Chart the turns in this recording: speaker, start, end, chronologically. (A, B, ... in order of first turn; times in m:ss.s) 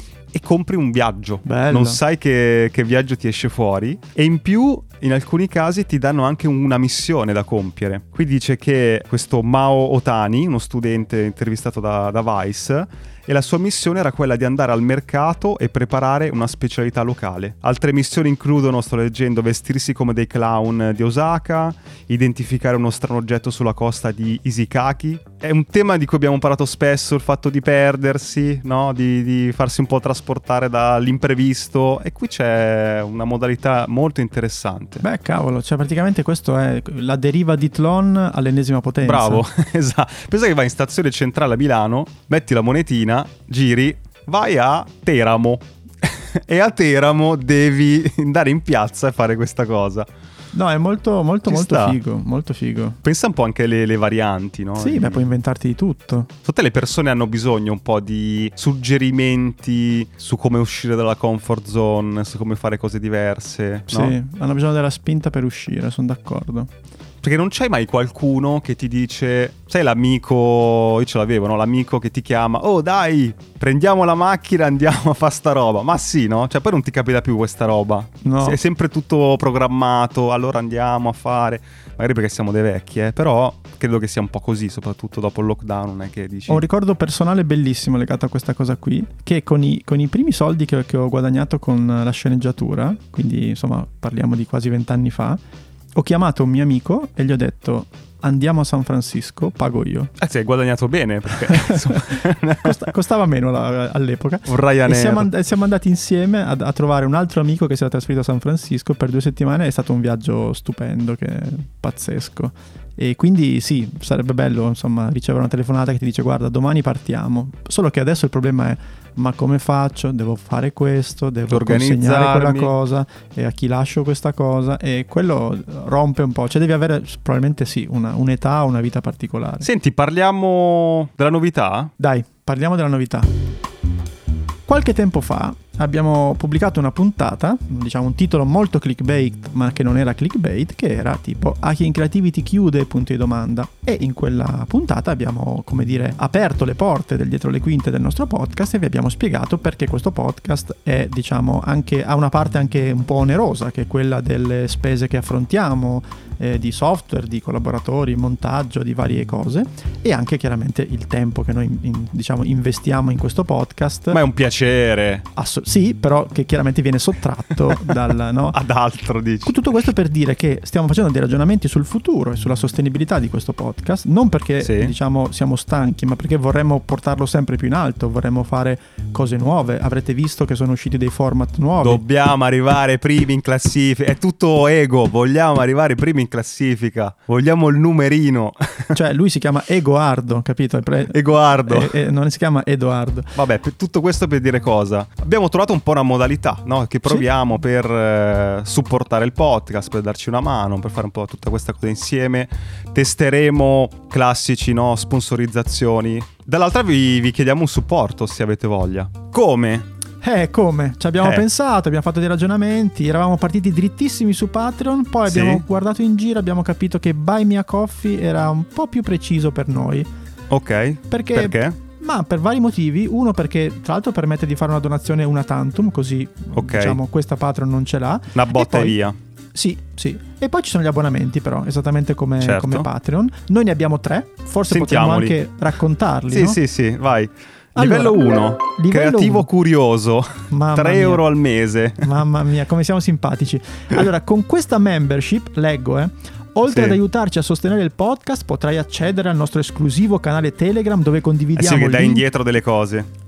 0:00.3-0:35.0 A
0:01.4-0:02.0 B
0:35.0-0:39.4 B
0:39.0-0:50.1 A
0:50.5-0:53.0 B
0:51.5-0:52.0 A
0:53.0-0:55.3 A
0:54.8-0:56.3 B
0:56.4-1:04.2 A
1:03.9-1:06.7 B
1:07.2-1:26.6 A
1:18.2-1:18.6 B
1:26.5-1:35.4 B
1:36.0-1:40.1 B
1:40.2-1:42.9 A
1:41.5-2:09.7 B
1:44.5-1:45.3 A
2:01.5-2:02.7 A
2:09.6-2:11.9 A
2:12.0-2:13.3 B
2:14.7-2:44.2 B
2:44.1-2:45.2 A
2:45.4-2:48.6 B
2:47.7-2:49.6 A
2:49.4-3:02.0 B
2:54.6-2:54.9 A
3:01.8-3:09.0 A
3:08.9-3:13.4 B
3:11.1-3:12.0 A
3:13.4-3:29.9 A
3:30.2-3:40.1 B
3:31.2-3:31.4 A
3:35.2-3:35.6 A
3:40.5-3:41.8 A
3:41.1-3:49.0 B
3:46.5-3:47.0 A
3:48.3-3:49.2 A
3:49.5-3:56.6 B
3:52.4-3:52.9 A
3:54.7-3:55.4 A
3:56.3-4:02.1 A
3:57.8-3:59.5 B
4:00.5-4:01.2 B
4:02.0-4:12.2 B
4:06.7-4:07.0 A
4:11.6-4:13.1 A